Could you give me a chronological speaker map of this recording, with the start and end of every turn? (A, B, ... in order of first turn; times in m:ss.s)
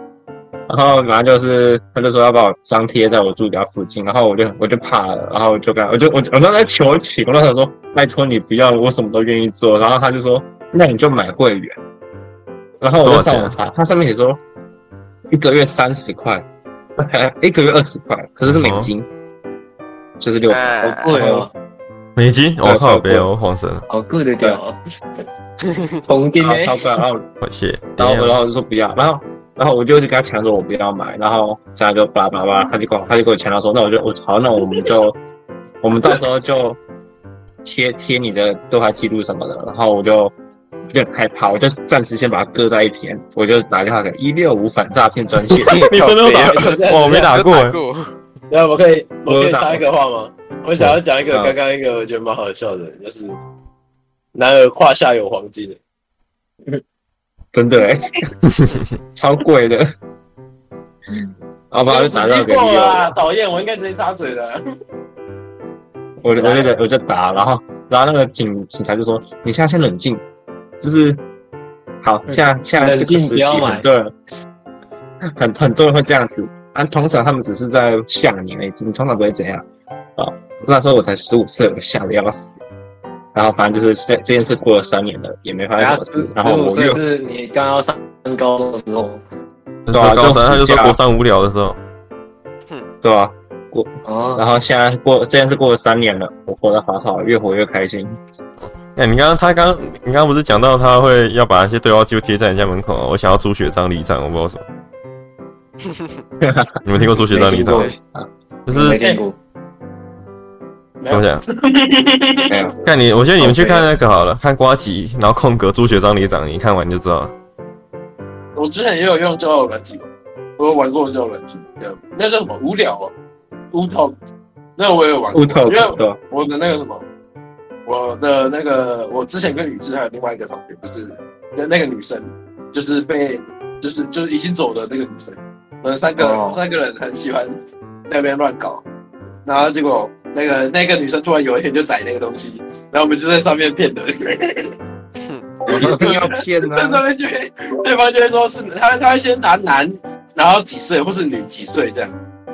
0:00.7-0:11.8 A
0:12.8-0:14.4 A
0:13.0-0:13.5 B
0:15.3-0:16.4 A
0:17.0-0:19.1 A
0:18.4-0:18.9 B
0:20.2-0:21.5 A
0:20.5-0:21.2 C
0:21.0-0:21.5 D
0:22.2-0:23.8 B
0:22.6-0:23.3 A
0:23.9-0:24.8 D
0:26.0-0:26.8 D
0:26.4-0:27.2 A
0:27.4-0:28.4 B
0:28.0-0:35.2 A
0:35.8-0:36.8 A
0:37.6-0:40.3 A
0:40.9-0:45.9 A
0:45.6-0:48.1 C
0:45.6-0:47.8 B
0:46.4-0:47.4 E
0:48.5-0:53.4 E
0:49.2-0:49.8 A
0:50.8-0:51.5 A
0:54.3-0:55.8 E
0:57.5-0:58.0 A
0:58.5-0:58.8 B
0:59.1-0:59.9 A
1:01.7-1:03.2 A
1:01.8-1:04.6 E
1:06.2-1:10.2 A
1:06.3-1:06.7 D
1:10.8-1:11.2 A
1:12.0-1:14.1 A
1:12.3-1:13.8 D
1:15.3-1:19.6 A
1:20.2-1:22.6 A
1:23.3-1:27.0 A
1:25.8-1:29.2 D
1:29.9-1:31.8 B
1:29.9-1:31.0 A
1:33.0-1:38.2 A
1:34.0-1:34.4 D
1:38.6-1:44.6 B
1:46.4-1:46.8 A
1:46.8-1:47.9 B
1:47.3-1:47.9 D
1:48.7-1:49.0 B
1:48.7-1:49.4 D
1:51.0-1:52.8 E
1:51.1-1:51.4 B
1:52.5-1:52.8 A
1:52.8-1:57.3 B
1:58.5-2:03.1 E
2:03.7-2:04.2 E
2:04.8-2:07.0 E
2:05.3-2:06.2 A
2:07.8-2:17.6 E
2:16.2-2:16.6 D
2:18.1-2:18.8 E
2:19.4-2:24.7 E
2:25.2-2:25.5 C
2:25.6-2:32.1 E
2:25.6-2:27.0 A